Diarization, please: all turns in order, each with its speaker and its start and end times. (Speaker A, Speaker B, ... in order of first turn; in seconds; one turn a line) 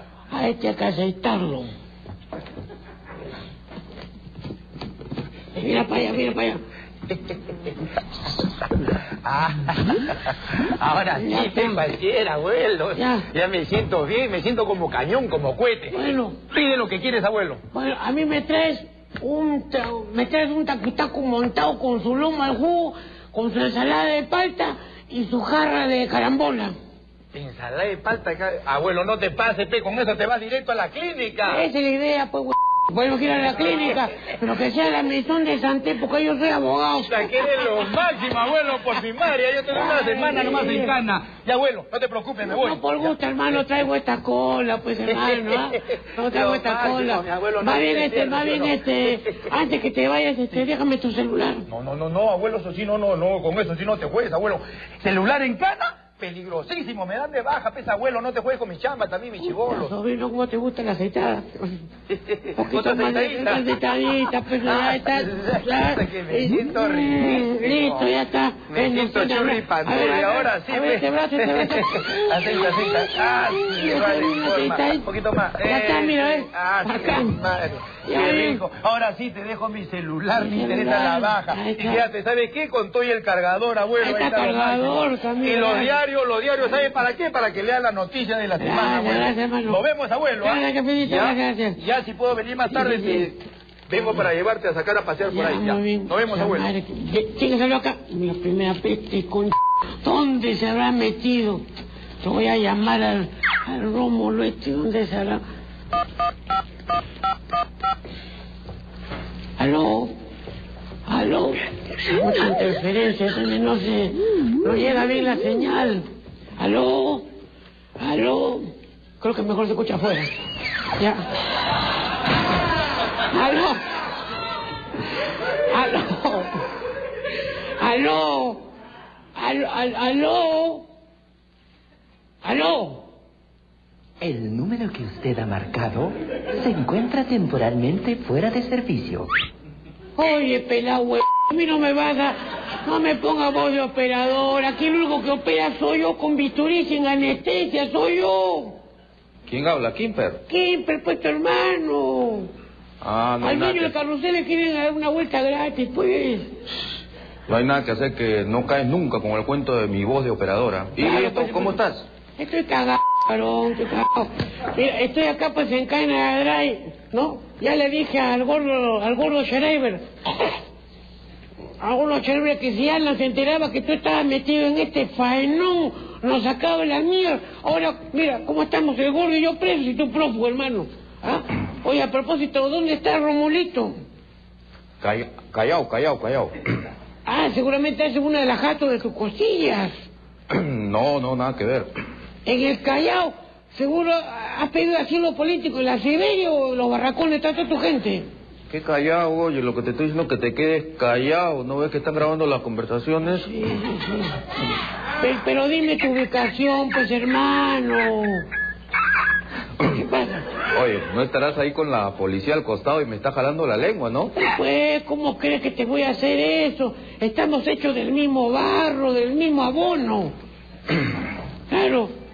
Speaker A: 0.3-1.7
Speaker A: 5.6-6.6
Speaker B: 9.2-10.0
Speaker B: 10.8-17.6
Speaker A: 11.2-11.8
Speaker A: 12.9-13.2
Speaker A: 15.9-16.4
Speaker A: 17.7-26.7
Speaker B: 27.3-31.6
Speaker A: 31.4-37.4
Speaker B: 37.1-43.1
Speaker A: 39.7-40.9
Speaker A: 42.4-51.6
Speaker B: 45.1-48.9
Speaker B: 51.7-59.9
Speaker A: 59.4-61.8
Speaker B: 62.2-63.7
Speaker A: 62.6-75.1
Speaker B: 64.6-68.1
Speaker B: 68.7-93.4
Speaker A: 75.6-77.4
Speaker A: 78.0-78.6
Speaker A: 80.4-82.1
Speaker A: 84.0-86.0
Speaker A: 88.6-89.8
Speaker A: 90.4-91.8
Speaker A: 92.7-93.2
Speaker B: 93.9-96.7
Speaker A: 95.3-101.6
Speaker A: 102.2-105.4
Speaker A: 109.6-110.1
Speaker A: 111.1-116.0
Speaker A: 116.6-117.3
Speaker A: 118.0-118.7
Speaker A: 119.2-120.3
Speaker A: 121.0-121.2
Speaker A: 123.3-123.8
Speaker A: 125.7-126.6
Speaker A: 127.8-128.7
Speaker A: 129.4-130.8
Speaker A: 132.4-133.1
Speaker C: 134.2-139.3
Speaker A: 140.2-148.8
Speaker D: 149.5-150.4
Speaker A: 150.5-152.5
Speaker D: 153.0-153.9
Speaker A: 153.4-156.5
Speaker D: 157.5-162.1
Speaker A: 161.0-161.8
Speaker A: 162.4-170.6
Speaker A: 171.8-183.9
Speaker D: 185.0-186.6
Speaker A: 187.2-189.9
Speaker D: 190.5-191.9
Speaker A: 192.4-198.3
Speaker D: 198.7-203.5
Speaker A: 203.4-204.3
Speaker A: 205.2-208.4
Speaker A: 209.9-210.4
Speaker D: 210.7-214.3
Speaker A: 214.3-220.3
Speaker A: 221.7-222.1